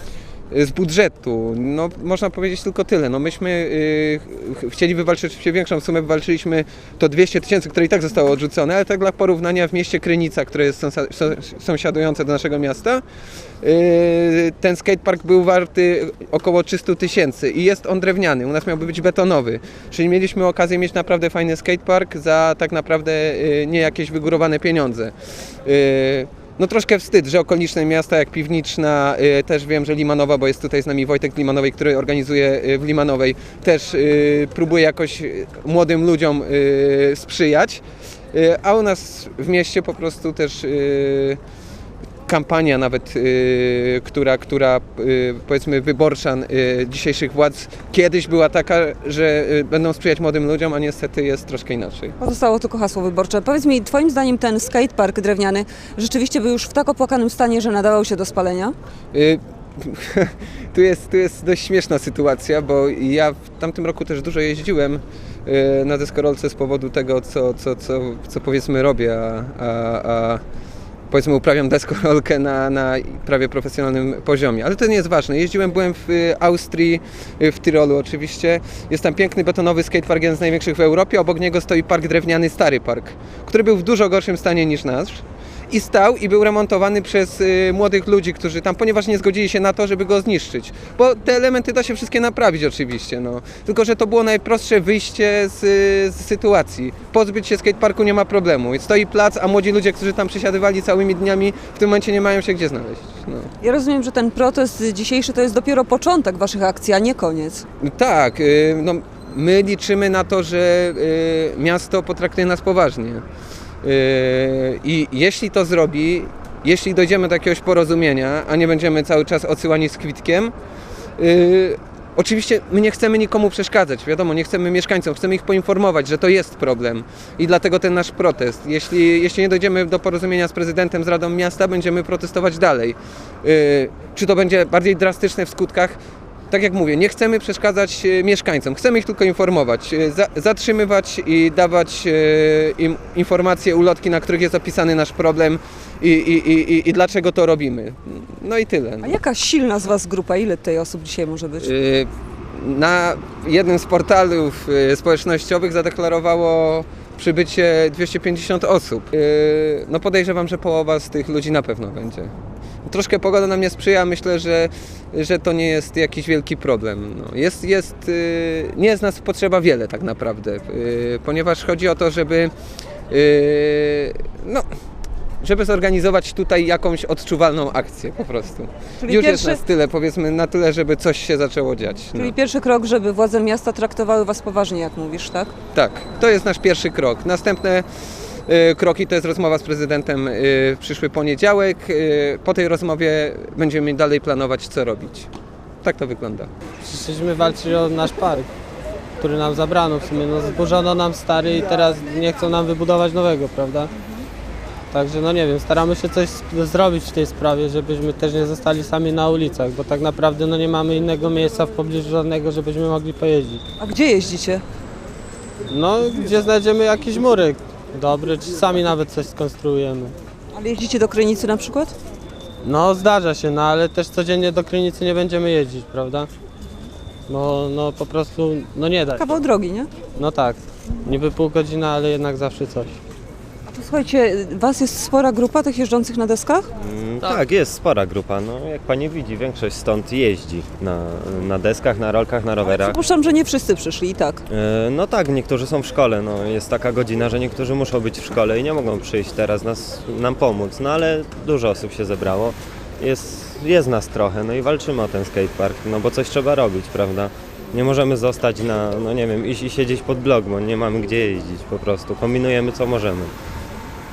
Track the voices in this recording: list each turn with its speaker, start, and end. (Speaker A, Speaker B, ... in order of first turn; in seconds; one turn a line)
Speaker A: 0.5-13.0
Speaker A: 13.6-25.1
Speaker A: 25.6-37.8
Speaker A: 38.3-41.4
Speaker A: 42.3-52.1
Speaker B: 52.2-58.8
Speaker A: 59.1-70.4
Speaker A: 71.1-103.5
Speaker B: 103.6-107.6
Speaker A: 107.8-113.2
Speaker A: 113.8-120.5
Speaker A: 121.2-136.0
Speaker A: 136.5-149.2
Speaker B: 149.0-151.7
Speaker A: 151.6-162.3
Speaker A: 162.9-172.5
Speaker A: 173.1-174.7
Speaker A: 175.4-182.3
Speaker B: 179.0-179.6
Speaker B: 182.1-185.5
Speaker A: 185.7-187.8
Speaker A: 188.5-195.3
Speaker A: 195.8-196.5
Speaker C: 196.8-198.5
Speaker C: 199.2-203.9
Speaker C: 204.9-213.6
Speaker B: 213.8-214.6
Speaker C: 215.7-220.2
Speaker B: 220.5-221.9
Speaker C: 222.6-226.3
Speaker C: 227.3-229.4
Speaker B: 229.1-229.9
Speaker C: 230.2-233.0
Speaker B: 233.7-236.7
Speaker D: 236.8-243.0
Speaker B: 242.7-244.4
Speaker D: 244.5-263.3